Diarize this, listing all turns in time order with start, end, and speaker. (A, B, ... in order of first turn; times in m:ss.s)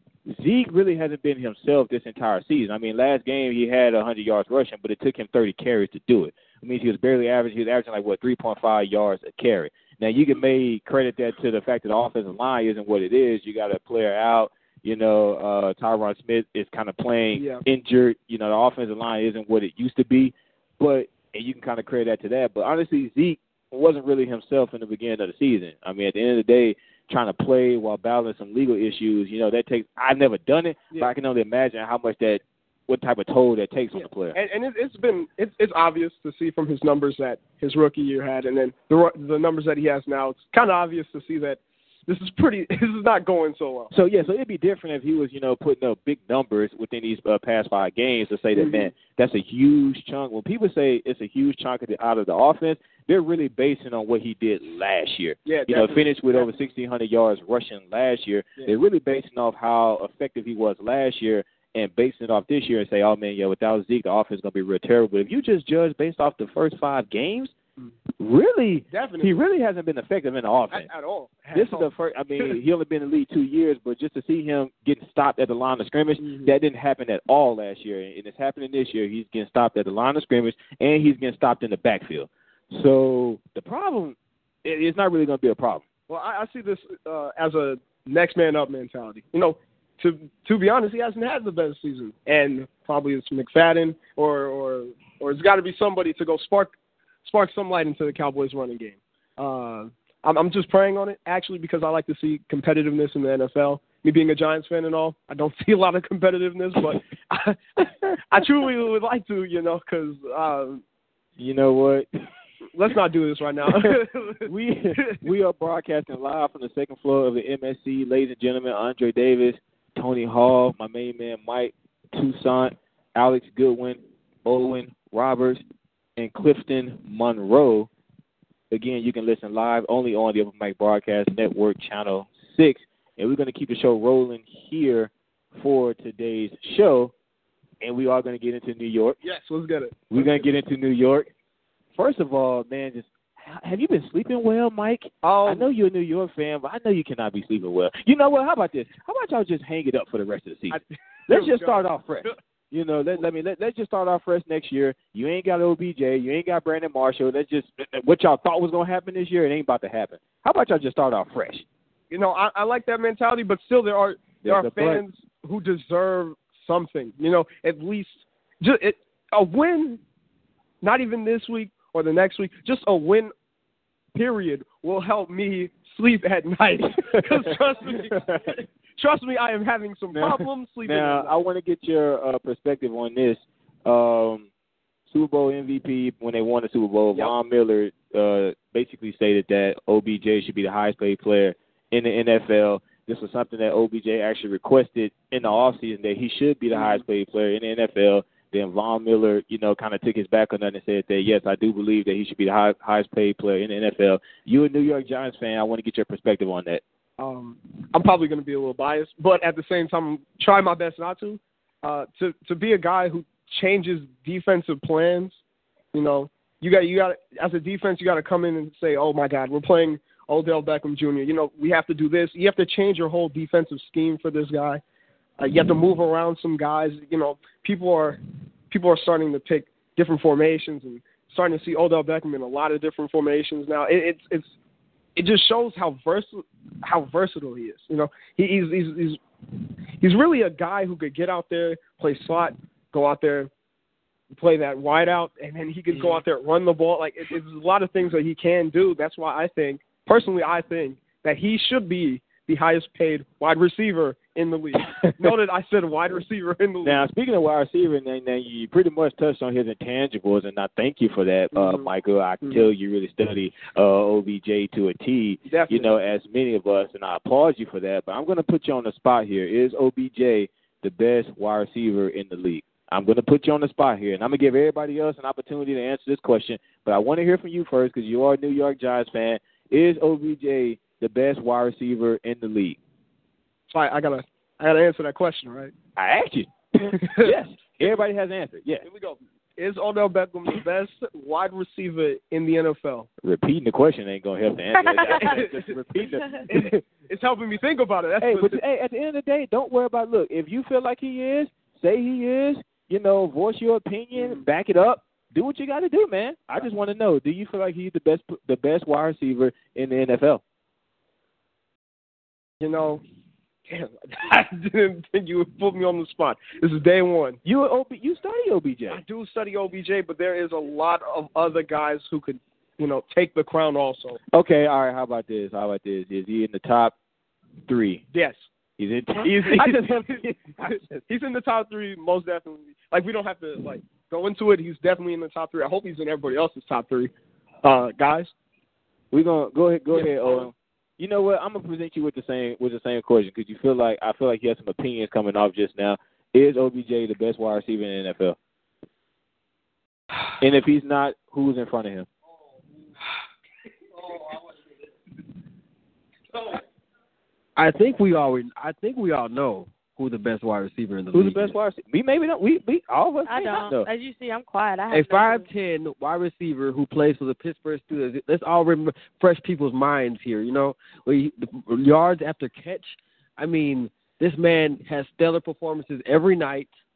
0:00.3-0:34.4 A
0:17.3-0:17.6 B
0:34.0-0:43.9 B
0:43.9-1:07.5 A
0:48.6-0:48.9 B
0:55.5-0:56.5 B
1:08.2-1:10.9 A
1:08.9-1:09.4 B
1:10.7-1:11.9 B
1:11.5-1:25.8 A
1:16.2-1:16.5 B
1:26.1-1:50.8 B
1:51.4-1:52.1 A
1:52.7-1:55.2 B
1:54.4-2:05.6 A
2:06.2-2:07.9 A
2:08.7-2:17.1 A
2:17.8-2:19.2 A
2:19.2-2:20.4 B
2:20.1-2:21.3 A
2:22.0-2:41.6 A
2:25.2-2:25.7 B
2:30.7-2:32.3 B
2:42.1-2:50.0 B
2:44.4-2:45.0 A
2:50.8-2:53.3 B
2:54.1-3:01.3 B
3:00.1-3:04.5 A
3:05.1-3:26.8 A
3:16.7-3:17.0 B
3:27.2-3:35.4 B
3:35.9-3:44.8 B
3:45.4-3:54.5 B
3:55.2-3:59.2 B
4:00.0-4:03.5 B
4:04.3-4:17.1 B
4:15.0-4:15.3 A
4:16.8-4:42.8 A
4:21.5-4:21.9 B
4:25.5-4:25.9 B
4:43.7-4:45.7 B
4:46.0-4:48.8 A
4:47.0-4:48.0 B
4:48.8-4:53.1 B
4:53.2-4:56.7 A
4:55.2-4:55.6 B
4:56.5-4:58.6 B
4:58.2-5:10.4 A
5:04.2-5:04.4 B
5:12.6-5:13.0 B
5:13.7-5:17.4 B
5:17.4-5:19.0 A
5:18.9-5:24.2 B
5:24.3-5:26.9 A
5:27.7-5:28.0 A
5:28.1-5:28.4 B
5:28.8-5:31.0 A
5:29.2-5:30.2 B
5:31.1-5:37.1 B
5:37.6-5:38.3 B
5:39.1-5:48.4 A
5:39.9-5:40.5 B
5:50.4-5:52.1 A
5:57.6-6:01.6 C
6:01.1-6:03.9 A
6:03.3-6:05.5 D
6:04.9-6:16.7 C